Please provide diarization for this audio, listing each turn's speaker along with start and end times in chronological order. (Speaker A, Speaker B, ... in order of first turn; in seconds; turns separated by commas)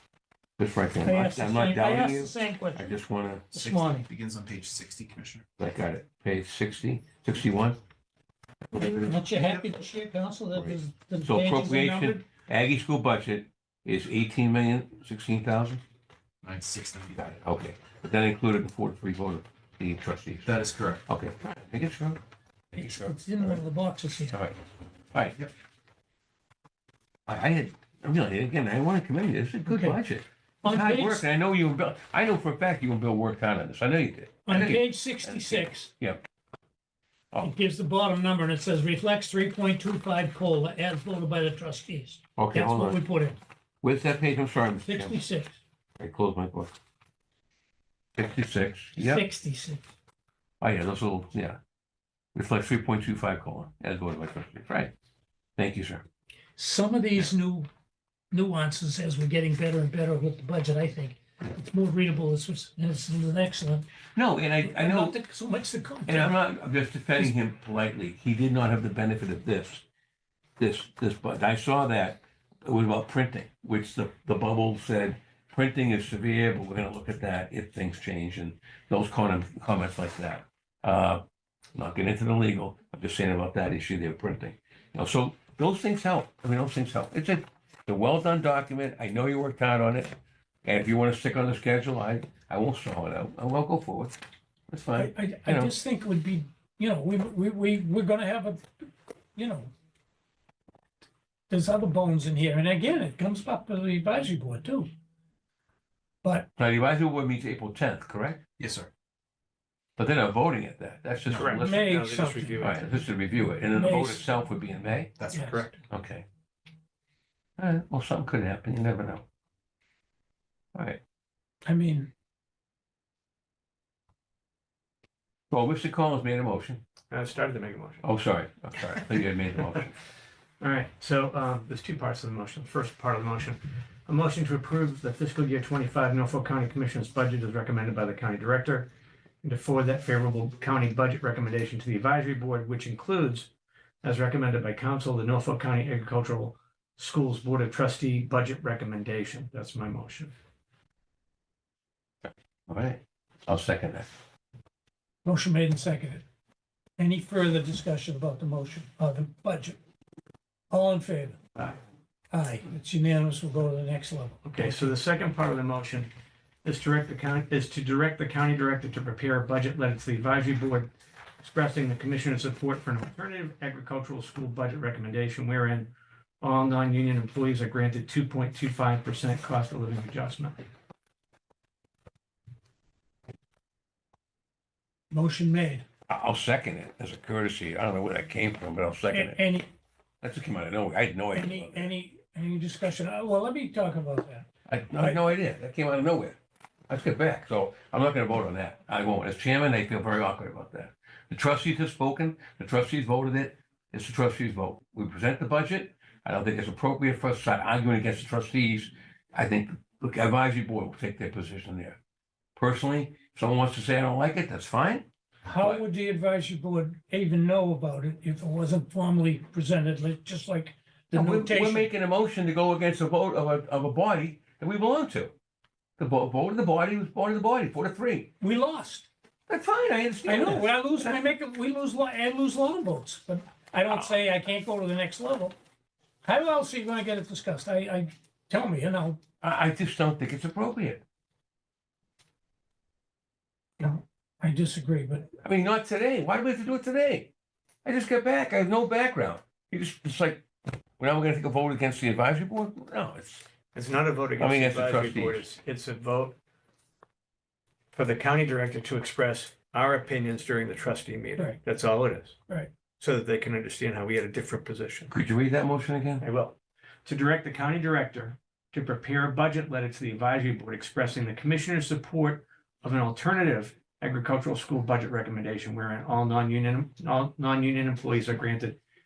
Speaker A: 0.6-3.5, Speaker B: 1.0-2.9, Speaker B: 3.5-4.1, Speaker C: 3.5-5.5, Speaker A: 5.6-7.8, Speaker A: 8.7-9.2, Speaker B: 8.7-12.2, Speaker A: 10.5-15.8, Speaker C: 16.4-17.2, Speaker A: 17.1-20.5, Speaker C: 20.4-21.0, Speaker A: 21.1-22.2, Speaker A: 22.7-23.6, Speaker B: 22.8-24.4, Speaker A: 24.3-24.6, Speaker A: 27.3-36.2, Speaker B: 29.7-30.0, Speaker B: 30.6-31.3, Speaker B: 34.5-35.9, Speaker B: 37.4-43.4, Speaker A: 42.4-43.0, Speaker A: 43.8-45.2, Speaker B: 44.8-45.6, Speaker A: 46.0-46.7, Speaker A: 48.2-49.2, Speaker B: 49.0-49.8, Speaker A: 50.6-51.6, Speaker A: 52.4-54.9, Speaker A: 55.6-56.0, Speaker B: 56.6-57.7, Speaker B: 58.3-63.9, Speaker A: 64.2-65.2, Speaker B: 64.6-66.4, Speaker A: 66.1-69.8, Speaker A: 70.6-81.2, Speaker A: 81.8-94.2, Speaker A: 94.7-95.7, Speaker B: 95.0-98.7, Speaker B: 99.3-99.7, Speaker B: 101.5-104.9, Speaker A: 106.6-108.4, Speaker C: 108.6-108.9, Speaker A: 110.0-112.0, Speaker C: 111.3-111.6, Speaker D: 111.3-113.1, Speaker B: 111.6-112.7, Speaker A: 112.5-115.2, Speaker B: 113.7-114.3, Speaker C: 115.2-115.6, Speaker B: 115.3-115.7, Speaker D: 115.3-115.7, Speaker A: 115.9-116.2, Speaker A: 117.6-119.2, Speaker A: 120.8-121.0, Speaker B: 121.7-122.1, Speaker A: 125.5-126.8, Speaker D: 127.1-128.0, Speaker A: 128.0-129.9, Speaker D: 130.6-138.9, Speaker D: 139.4-143.5, Speaker D: 144.0-150.3, Speaker A: 152.7-154.1, Speaker B: 155.2-156.2, Speaker B: 157.0-159.8, Speaker B: 160.7-161.4, Speaker B: 162.3-164.8, Speaker D: 164.4-166.1, Speaker D: 166.6-170.9, Speaker D: 171.4-180.6, Speaker B: 185.1-185.8, Speaker A: 186.1-189.4, Speaker B: 189.1-189.7, Speaker A: 190.2-191.9, Speaker B: 191.3-194.5, Speaker A: 194.7-196.4, Speaker B: 195.0-195.3, Speaker A: 196.9-212.0, Speaker A: 212.6-215.1, Speaker B: 215.4-221.9, Speaker A: 221.1-225.3, Speaker A: 226.0-228.3, Speaker B: 228.4-229.1, Speaker A: 229.5-231.2, Speaker B: 230.2-235.6, Speaker B: 236.2-239.2, Speaker A: 239.4-241.0, Speaker B: 243.8-245.3, Speaker A: 245.4-247.3, Speaker A: 247.8-250.5, Speaker A: 251.0-253.5, Speaker D: 253.7-256.4, Speaker A: 254.4-255.5, Speaker D: 257.9-262.4, Speaker D: 263.0-265.1, Speaker A: 265.1-266.2, Speaker D: 266.2-278.8